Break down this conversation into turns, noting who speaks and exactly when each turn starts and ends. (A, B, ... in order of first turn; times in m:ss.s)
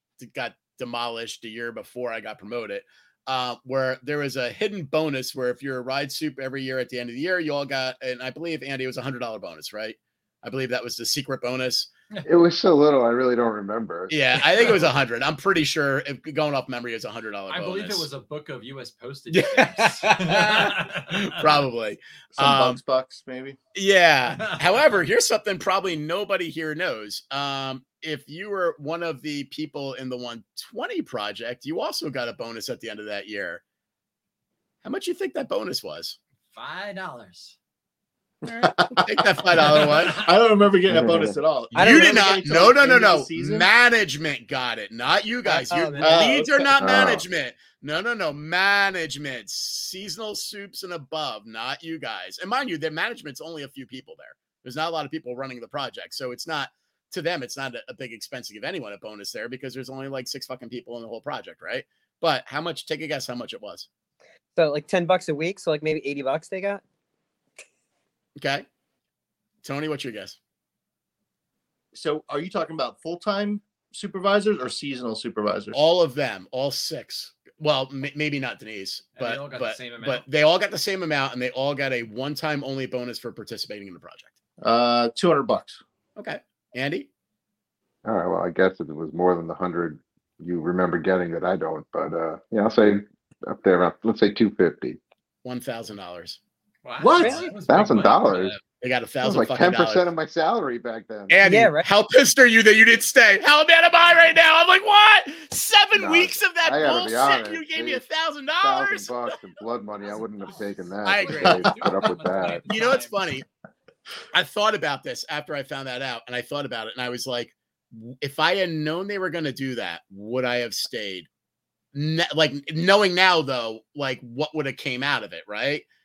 0:00.2-0:11.9 A
0:12.1-0:12.4 B
0:12.2-0:14.9 C
0:14.1-0:18.1 A
0:17.5-0:21.6 B
0:19.3-0:22.8 A
0:22.3-0:23.6 D
0:23.7-0:33.6 A
0:24.4-0:24.8 B
0:34.8-0:36.2 A
0:36.5-0:37.6 B
0:38.4-0:43.7 D
0:38.5-0:40.2 A
0:39.6-0:40.3 B
0:40.9-0:41.4 C
0:41.7-1:03.9 A
0:41.7-0:42.2 E
0:45.4-0:46.7 E
0:46.0-0:46.5 D
0:46.8-0:47.2 C
1:04.6-1:06.8 E
1:08.4-1:08.6 A
1:09.6-1:10.4 A
1:11.9-1:15.8 D
1:15.7-1:24.3 A
1:19.1-1:20.2 B
1:24.6-1:25.8 D
1:26.2-1:27.1 A
1:28.0-1:35.0 C
1:35.4-1:36.4 A
1:36.8-1:38.6 B
1:37.0-1:37.5 D
1:37.2-1:37.5 E
1:37.7-1:38.5 C
1:38.8-1:40.0 A
1:39.2-1:41.4 C
1:41.3-1:49.3 A
1:41.4-1:41.8 E
1:45.9-1:48.0 C
1:48.6-1:52.6 C
1:50.0-1:53.4 B
1:51.0-1:51.7 A
1:52.7-1:53.4 A
1:54.3-2:01.3 A
2:01.9-2:05.8 A